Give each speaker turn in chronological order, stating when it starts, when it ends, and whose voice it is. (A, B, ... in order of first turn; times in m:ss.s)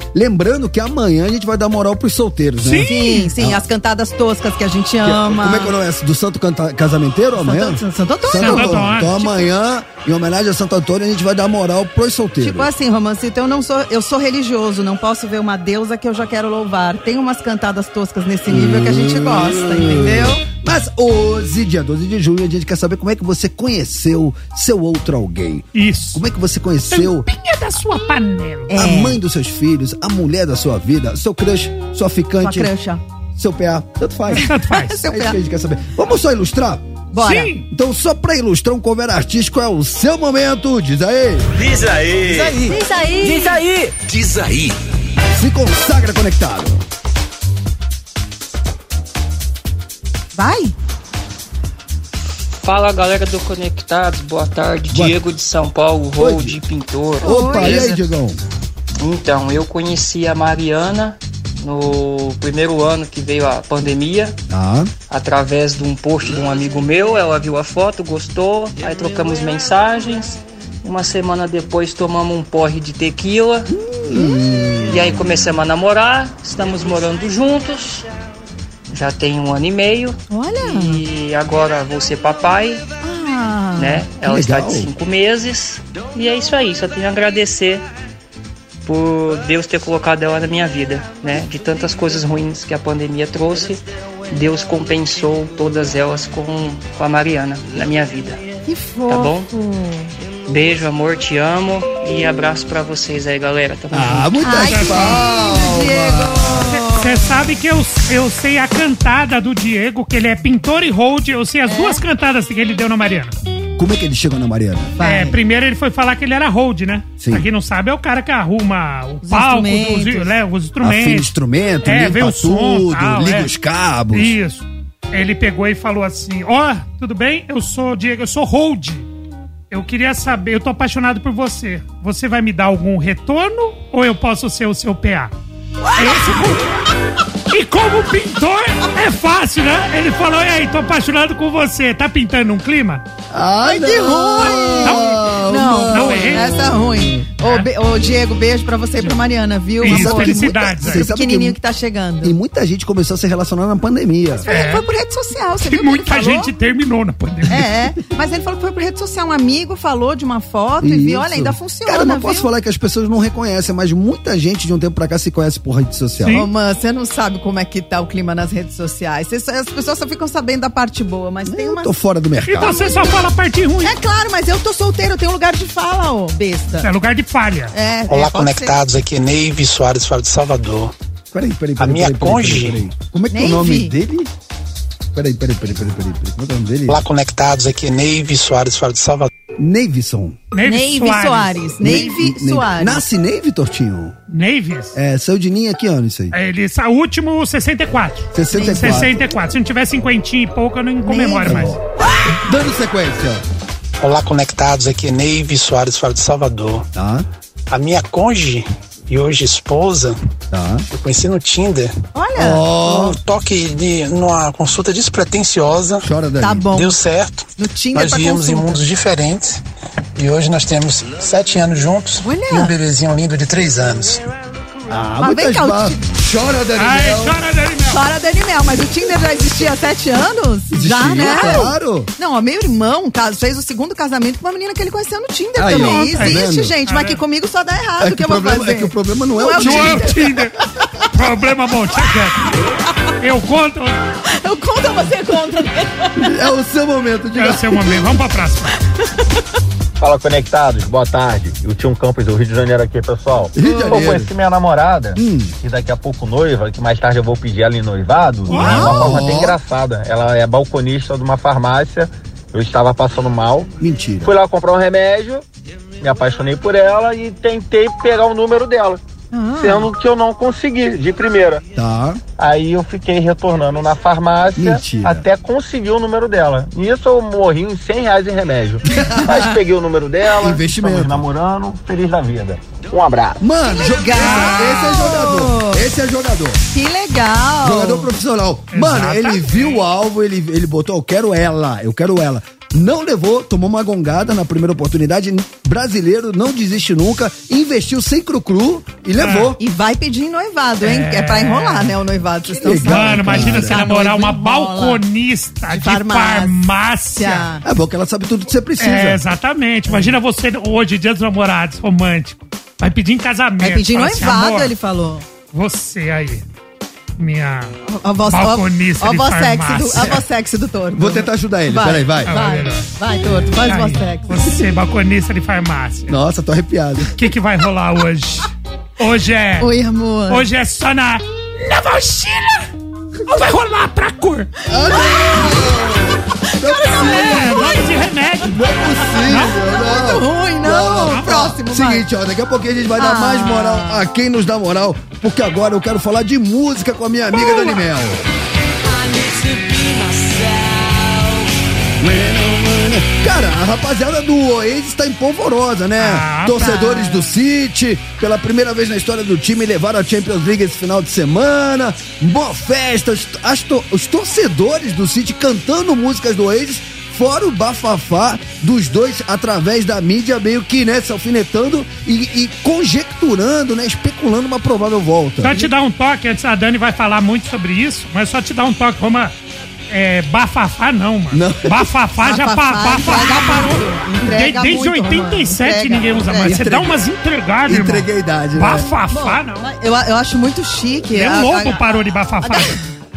0:00.1-0:03.6 A
0:02.6-0:03.3 B
0:02.8-0:05.7 C
0:05.0-0:12.7 A
0:07.4-0:08.8 C
0:08.4-0:09.3 B
0:12.4-0:20.4 C
0:18.5-0:27.3 A
0:25.7-0:26.2 B
0:26.9-0:28.7 B
0:28.7-0:29.2 C
0:28.7-0:32.7 A
0:32.4-0:33.0 C
0:33.4-0:34.5 A
0:34.3-0:35.0 B
0:34.3-0:35.4 C
0:35.0-0:36.9 A
0:37.1-0:37.6 C
0:37.2-0:37.6 B
0:37.7-0:41.5 A
0:41.6-0:42.6 D
0:42.4-0:43.6 C
0:43.4-0:44.8 D
0:45.3-0:46.8 A
0:50.4-0:50.7 C
0:52.5-0:58.0 E
0:54.9-0:55.2 A
0:56.2-0:56.6 A
0:57.2-0:57.9 C
0:57.2-0:58.4 A
0:59.0-1:04.4 E
1:04.5-1:04.9 A
1:05.1-1:13.7 E
1:13.7-1:15.3 A
1:14.1-1:14.4 C
1:14.8-1:18.0 E
1:18.9-1:22.8 E
1:20.3-1:21.0 C
1:23.0-1:24.0 C
1:23.8-1:27.8 E
1:24.2-1:24.9 A
1:28.8-1:38.4 E
1:38.7-1:40.1 C
1:39.1-1:39.5 E
1:40.5-1:44.4 E
1:43.9-1:46.7 A
1:44.4-1:47.2 C
1:44.5-1:45.2 B
1:46.7-1:53.4 B
1:51.7-1:52.0 C
1:53.8-1:55.0 A
1:55.0-1:55.4 C
1:55.0-2:01.3 B
1:57.2-1:57.4 A
1:59.2-2:00.3 C
2:00.8-2:04.3 A
2:01.8-2:03.5 B
2:04.1-2:09.1 B
2:09.7-2:15.3 B
2:16.0-2:16.6 B
2:17.5-2:23.0 B
2:23.3-2:27.2 A
2:23.6-2:32.4 C
2:24.4-2:25.1 B
2:25.9-2:26.6 B
2:27.4-2:27.7 B
2:29.8-2:31.0 B
2:29.8-2:31.6 A
2:32.2-2:34.5 A
2:34.4-2:36.5 C
2:34.5-2:34.9 B
2:35.6-2:37.7 B
2:37.5-2:42.5 C
2:40.8-2:46.4 A
2:46.2-2:46.5 B
2:46.3-2:51.9 C
2:51.4-2:52.8 A
2:52.5-2:53.9 B
2:52.6-2:53.1 C
2:53.8-2:56.9 C
2:56.8-2:57.7 B
2:57.7-2:58.8 C
2:58.1-3:00.9 F
3:01.3-3:04.3 A
3:01.8-3:02.8 F
3:03.3-3:03.9 C
3:05.1-3:07.0 A
3:06.9-3:09.3 F
3:09.6-3:10.4 A
3:10.5-3:11.7 B
3:10.6-3:13.0 C
3:11.8-3:14.2 A
3:14.3-3:15.0 B
3:14.9-3:16.4 A
3:16.3-3:21.8 B
3:18.3-3:19.1 A
3:18.5-3:19.1 C
3:21.0-3:21.7 C
3:21.4-3:23.4 A
3:24.0-3:26.9 F
3:27.0-3:27.2 A
3:27.7-3:30.2 F
3:30.5-3:30.8 A
3:30.9-3:31.9 F
3:32.1-3:33.1 C
3:32.4-3:33.2 A
3:33.0-3:36.1 F
3:36.0-3:36.6 A
3:36.4-3:37.0 C
3:36.7-3:39.6 F
3:37.6-3:38.8 C
3:40.2-3:44.2 F
3:42.2-3:42.7 C
3:44.9-3:47.4 A
3:45.2-3:46.0 C
3:46.8-3:48.0 B
3:47.9-4:00.2 C
3:50.7-3:52.1 A
3:51.2-3:51.6 B
3:55.6-3:56.7 A
3:55.7-3:57.2 B
3:58.0-4:00.5 A
3:59.6-4:00.6 B
4:01.1-4:02.4 B
4:03.2-4:04.0 B
4:04.2-4:06.3 C
4:06.2-4:08.0 A
4:07.3-4:08.8 B
4:10.0-4:23.7 G
4:13.5-4:14.3 A
4:13.6-4:14.0 C
4:15.2-4:15.5 A
4:18.5-4:19.2 B
4:18.5-4:19.6 A
4:23.8-4:24.3 A
4:24.2-4:25.4 G
4:26.0-4:29.0 G
4:29.3-4:29.9 C
4:29.6-4:31.6 G
4:31.7-4:32.2 A
4:32.4-4:43.4 G
4:34.6-4:35.2 A
4:38.8-4:39.6 A
4:40.3-4:41.2 A
4:43.4-4:46.6 A
4:43.6-4:45.8 C
4:44.1-4:44.9 B
4:46.7-4:48.1 C
4:47.6-4:59.6 A
4:48.7-4:49.8 B
4:59.2-4:59.5 B
4:59.6-5:05.0 C
5:00.8-5:02.0 B
5:02.6-5:03.8 A
5:02.6-5:07.5 B
5:05.7-5:06.6 C
5:07.2-5:07.6 C
5:07.6-5:09.2 A
5:08.8-5:14.7 B
5:09.9-5:10.2 C
5:13.6-5:15.2 C
5:15.5-5:16.4 B
5:17.2-5:17.7 B
5:17.8-5:24.5 C
5:18.3-5:20.2 B
5:21.0-5:22.4 A
5:22.2-5:22.9 B
5:23.6-5:26.2 B
5:26.1-5:27.2 A
5:27.1-5:29.7 B
5:29.6-5:30.4 C
5:30.3-5:32.7 B
5:33.2-5:34.5 B
5:34.7-5:37.8 A
5:34.9-5:37.9 C
5:37.0-5:39.6 B
5:38.4-5:48.2 A
5:39.2-5:42.0 C
5:41.0-5:41.6 B
5:43.0-5:44.0 C
5:47.4-5:47.8 B
5:52.0-6:15.6 A
5:56.0-5:56.9 B
5:56.5-5:57.3 C
6:15.4-6:19.3 B
6:19.9-6:29.6 B
6:21.3-6:21.9 A
6:22.2-6:26.6 C
6:26.4-6:27.0 A
6:27.7-6:28.9 A
6:29.1-6:32.9 C
6:31.1-6:32.8 B